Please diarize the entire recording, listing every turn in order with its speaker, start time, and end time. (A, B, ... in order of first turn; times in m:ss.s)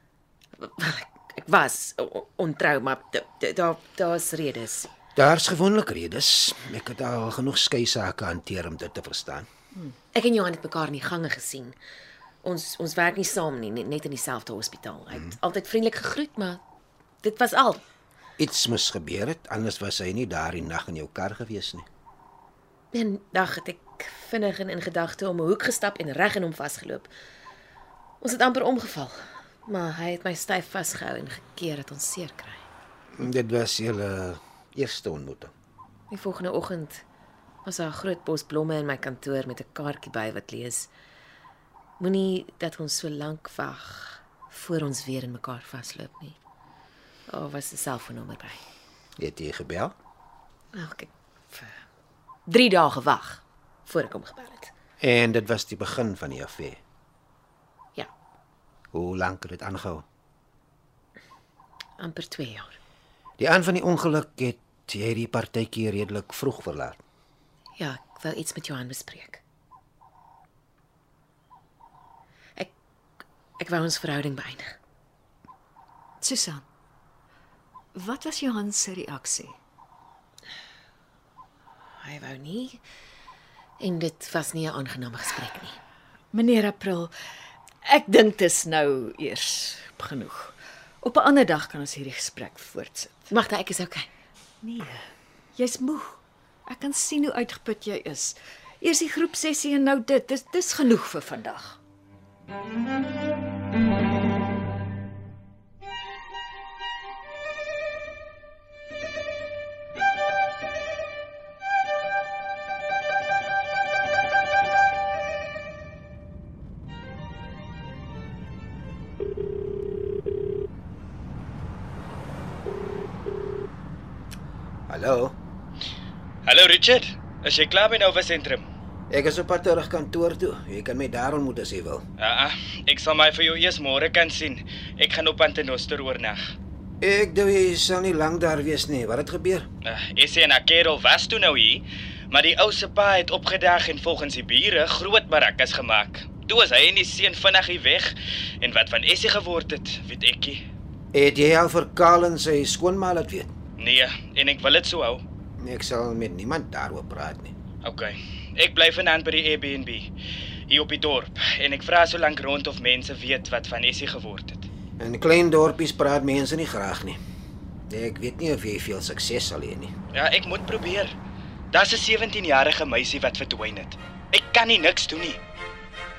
0:00.6-0:04.9 A
0:05.2-0:09.5 B
0:10.1-0:11.8 A
0:12.4-0:16.6 A
0:17.2-0:17.8 A
0:18.4-0:21.8 B
0:22.9-0:27.1 A
0:28.2-0:32.6 A
0:33.2-0:35.5 B
0:36.1-0:37.0 A
0:37.6-0:40.9 A
0:42.0-0:46.4 A
0:47.3-0:48.6 A
0:49.2-0:49.9 B
0:50.7-0:51.8 A
0:52.5-0:54.7 A
0:55.0-0:56.8 B
0:58.9-1:00.0 B
1:02.0-1:02.7 A
1:03.4-1:07.0 B
1:07.8-1:09.4 A
1:13.6-1:14.7 A
1:16.2-1:16.6 C
1:17.9-1:19.6 C
1:22.0-1:22.8 A
1:23.8-1:25.8 A
1:26.3-1:27.1 C
1:27.8-1:33.2 C
1:33.3-1:34.1 A
1:34.6-1:41.8 C
2:04.9-2:05.3 B
2:06.4-2:08.6 D
2:09.1-2:12.0 B
2:12.2-2:16.5 D
2:17.0-2:19.7 B
2:19.8-2:30.6 D
2:31.1-2:33.5 B
2:33.8-2:35.2 D
2:35.6-2:37.5 B
2:37.8-2:40.1 D
2:40.7-2:44.7 D
2:45.0-2:47.2 B
2:47.9-2:49.9 B
2:50.1-2:51.1 D
2:51.7-2:55.4 D